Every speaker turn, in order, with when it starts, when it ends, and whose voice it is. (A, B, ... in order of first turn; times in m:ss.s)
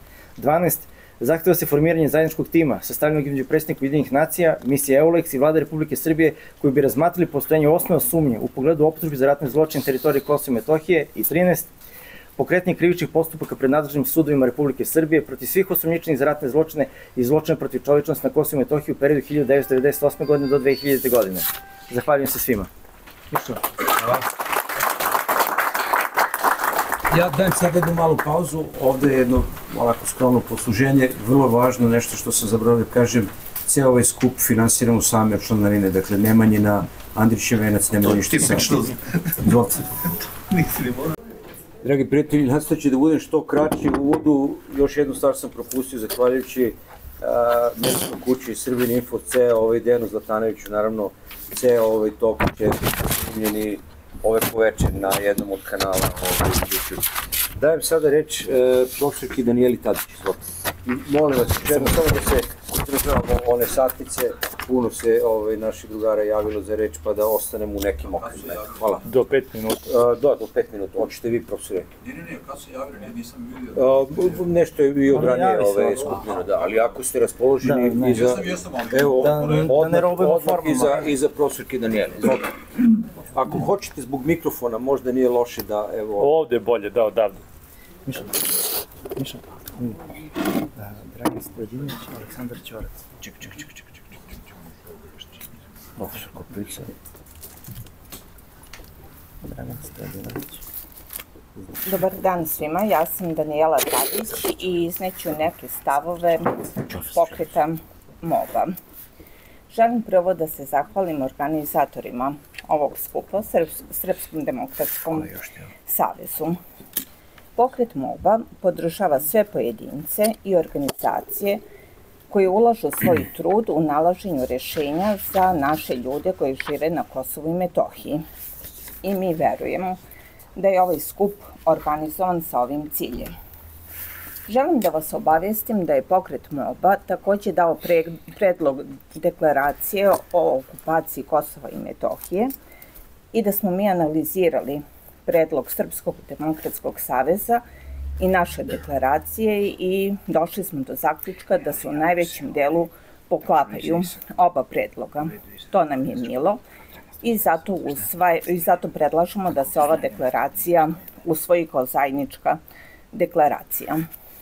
0:00.4-0:11.7 A
0:12.4-0:22.7 A
0:23.3-0:24.2 B
0:27.1-0:39.8 B
0:41.8-1:09.0 B
1:08.2-1:08.8 C
1:09.0-1:09.9 D
1:09.8-1:11.9 B
1:12.0-1:14.0 C
1:13.7-1:22.5 B
1:15.1-1:16.2 A
1:17.6-1:18.4 A
1:18.1-1:19.7 C
1:19.1-1:21.1 A
1:23.3-1:26.3 B
1:26.2-1:27.4 D
1:31.2-1:32.9 A
1:39.7-1:40.4 A
1:41.8-1:48.8 E
1:49.7-1:56.6 E
1:57.6-2:01.6 E
2:02.3-2:08.2 E
2:09.0-2:10.0 E
2:10.6-2:13.3 E
2:14.5-2:22.5 E
2:23.3-2:27.6 E
2:28.2-2:36.6 E
2:37.2-2:42.6 E
2:43.1-2:44.0 E